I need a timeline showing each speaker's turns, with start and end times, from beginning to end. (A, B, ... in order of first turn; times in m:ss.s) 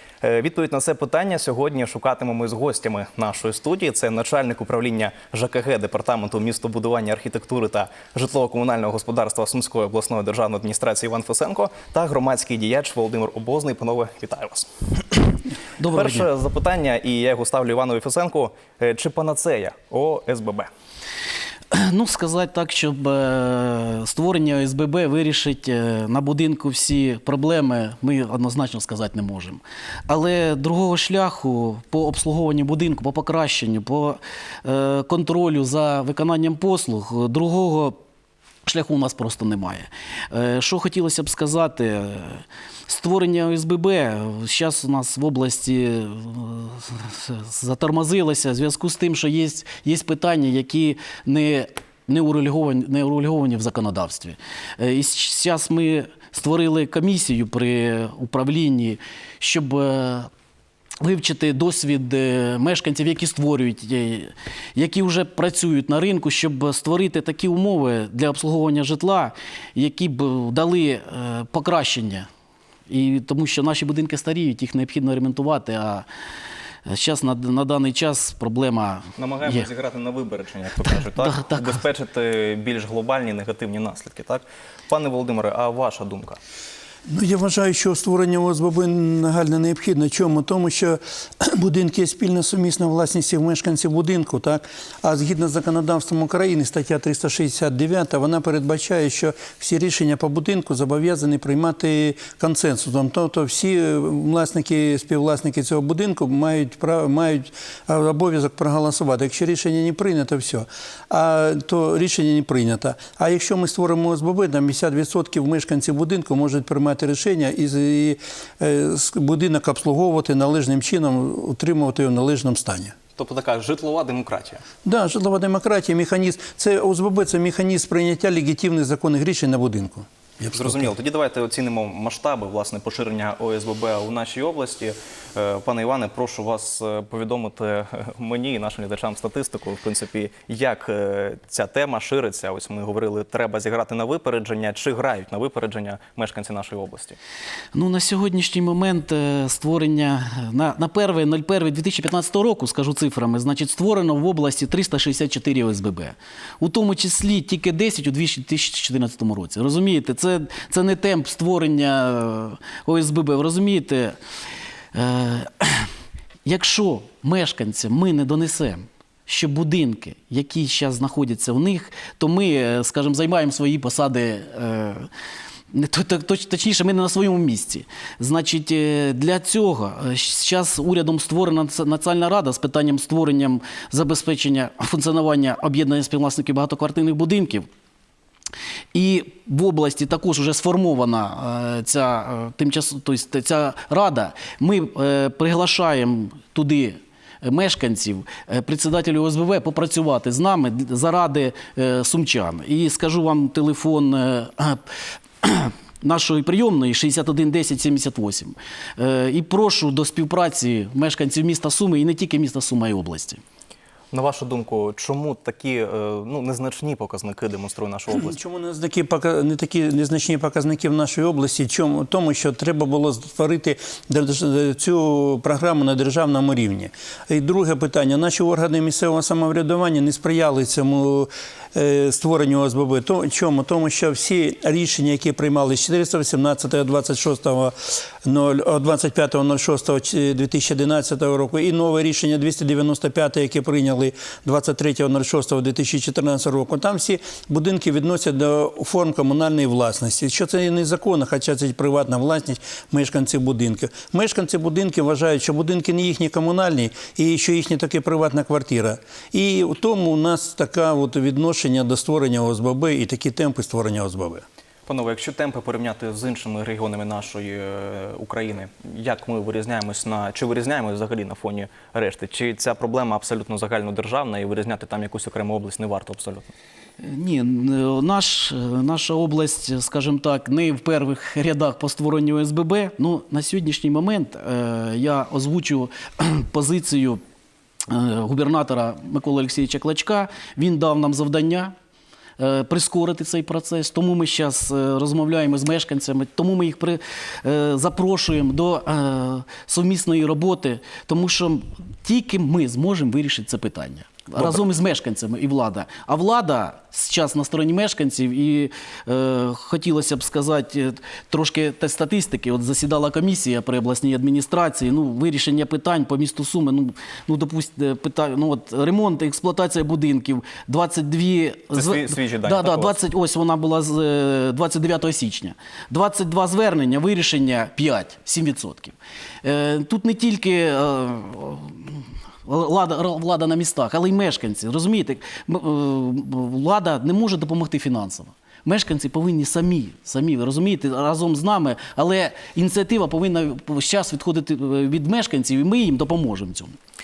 0:00.2-0:14.7 A
0:15.8-0:16.3 B
0:15.9-0:20.7 A
0:21.7-0:38.0 B
0:38.7-1:00.3 B
1:01.0-1:12.3 B
1:12.9-1:16.1 B
1:16.9-1:19.7 B
1:19.2-1:26.4 A
1:20.8-1:21.8 B
1:27.1-2:03.0 C
2:03.2-2:04.6 A
2:04.8-2:10.9 C
2:10.5-2:27.2 A
2:27.8-2:44.2 B
2:44.9-2:45.9 B
2:46.4-2:55.1 B
2:55.7-3:07.7 B
3:08.9-3:24.8 B
3:25.4-3:33.4 B
3:34.1-3:38.4 A
3:38.1-4:24.4 C
4:24.9-4:36.5 A
4:37.0-4:47.2 B
4:47.9-4:51.7 B
4:52.4-5:46.8 B
5:21.7-5:23.0 A